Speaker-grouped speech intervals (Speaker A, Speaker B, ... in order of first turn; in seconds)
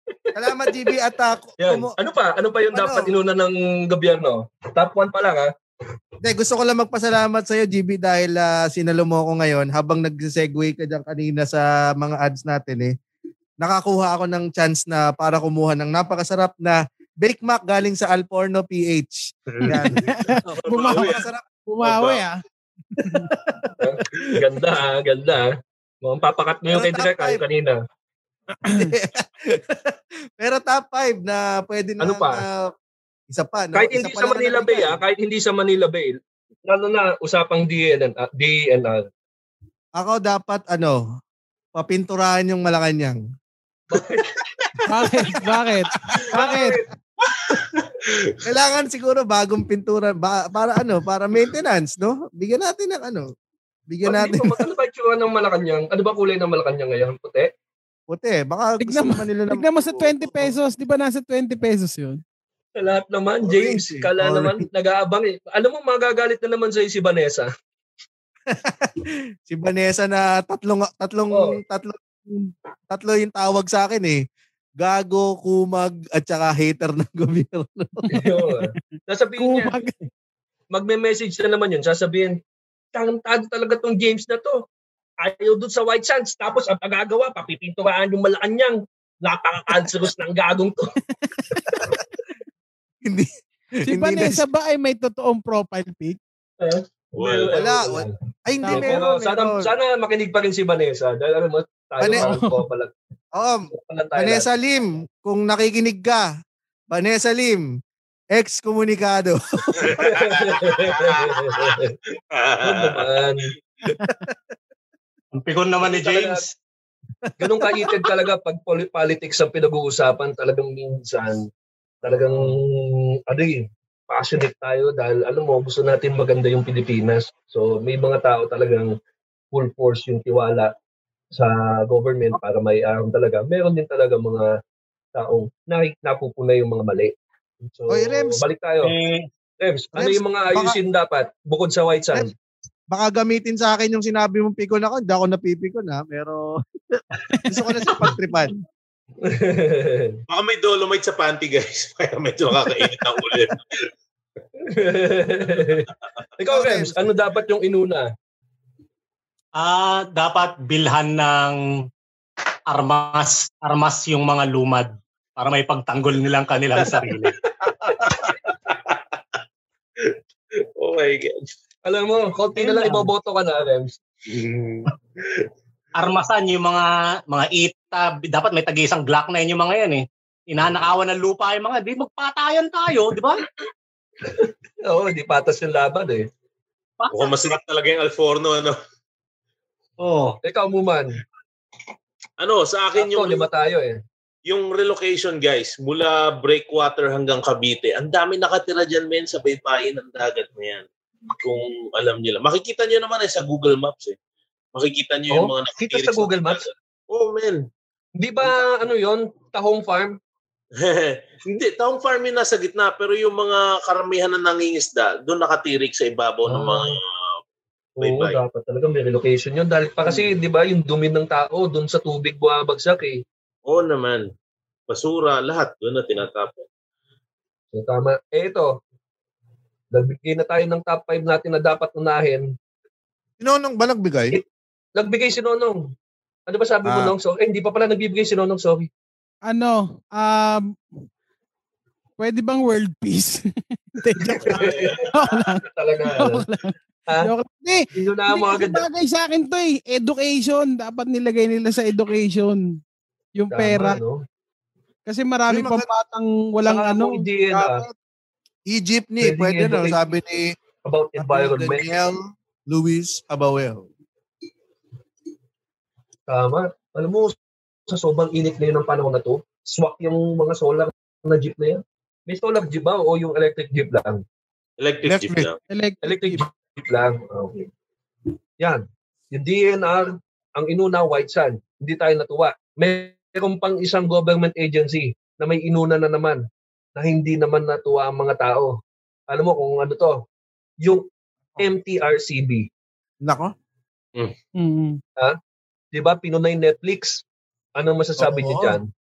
Speaker A: 0.3-1.9, 2.7-3.1, 6.2-12.9, 13.6-21.4, 23.0-24.4, 26.7-27.4, 28.7-32.7, 33.3-35.0, 40.0-41.0, 41.8-43.2, 46.0-46.8, 48.4-53.3, 53.9-54.7, 58.1-60.5, 63.5-64.7, 68.5-74.2, 74.8-78.2, 91.7-91.9, 93.0-93.3, 93.9-94.5, 97.5-99.7, 102.0-102.4, 103.3-106.3, 106.9-107.7, 108.3-110.2, 114.0-114.4, 117.6-117.9, 137.9-138.4, 139.9-140.8, 142.9-148.5, 156.5-157.1, 233.4-234.4, 236.8-237.1, 255.5-255.8, 258.7-260.5, 261.2-263.9, 275.0-275.5, 293.2-293.5, 298.2-298.8
Speaker B: 0.5-0.9, 1.6-5.5, 20.4-20.9, 23.8-25.5, 26.0-27.8, 32.0-32.4, 33.7-39.0, 43.9-44.8, 46.1-46.8, 54.0-57.5, 62.8-67.5, 71.3-71.6, 78.1-79.7, 80.7-82.3, 82.9-84.6, 85.2-91.0, 91.6-91.9, 96.6-98.1, 98.7-102.9, 103.7-104.5, 110.0-111.9, 112.6-113.5, 115.8-116.4, 117.4-121.5, 122.0-128.9, 129.5-130.7, 131.3-134.5, 135.2-137.1, 137.7-138.9, 139.6-142.3, 149.2-150.2, 154.6-158.1, 171.8-174.0, 184.2-186.3, 190.4-191.1, 192.9-194.0, 205.3-206.7, 208.2-210.1, 216.5-216.9, 218.0-223.2, 227.7-228.7, 229.9-232.5, 235.0-235.8, 236.5-238.9, 244.2-245.1, 245.6-246.4, 247.9-248.8, 253.5-254.2, 256.7-257.8, 259.2-260.0, 260.8-261.9, 266.3-267.4, 267.9-274.2, 276.0-277.7, 278.6-286.4, 286.9-288.7, 289.3-290.2, 291.6-292.7, 295.9-297.2, 297.8-298.8
Speaker C: 19.7-22.4, 23.0-23.3, 28.6-28.9, 44.9-46.8, 58.8-62.2, 79.4-80.1, 91.3-91.7, 93.9-96.2, 98.6-99.0, 102.2-102.5, 239.5-240.8, 242.2-252.8, 253.4-254.0, 255.1-257.9, 275.7-276.4, 294.6-295.0
Speaker D: 20.6-21.2, 21.8-22.2, 47.2-48.2, 97.2-97.6, 109.8-111.8, 112.3-113.2, 150.3-153.8, 167.8-169.1, 170.8-171.5, 174.3-175.5, 187.1-188.8, 192.4-193.5, 194.5-200.8, 201.4-204.2, 204.7-207.6, 210.8-217.4, 218.0-218.4, 223.7-224.2, 224.9-226.7, 244.4-245.1, 274.8-275.6
Speaker E: 115.3-116.5, 138.8-139.3, 159.6-161.6, 162.7-167.3, 172.6-173.1, 175.9-183.4, 187.0-187.5, 190.0-190.4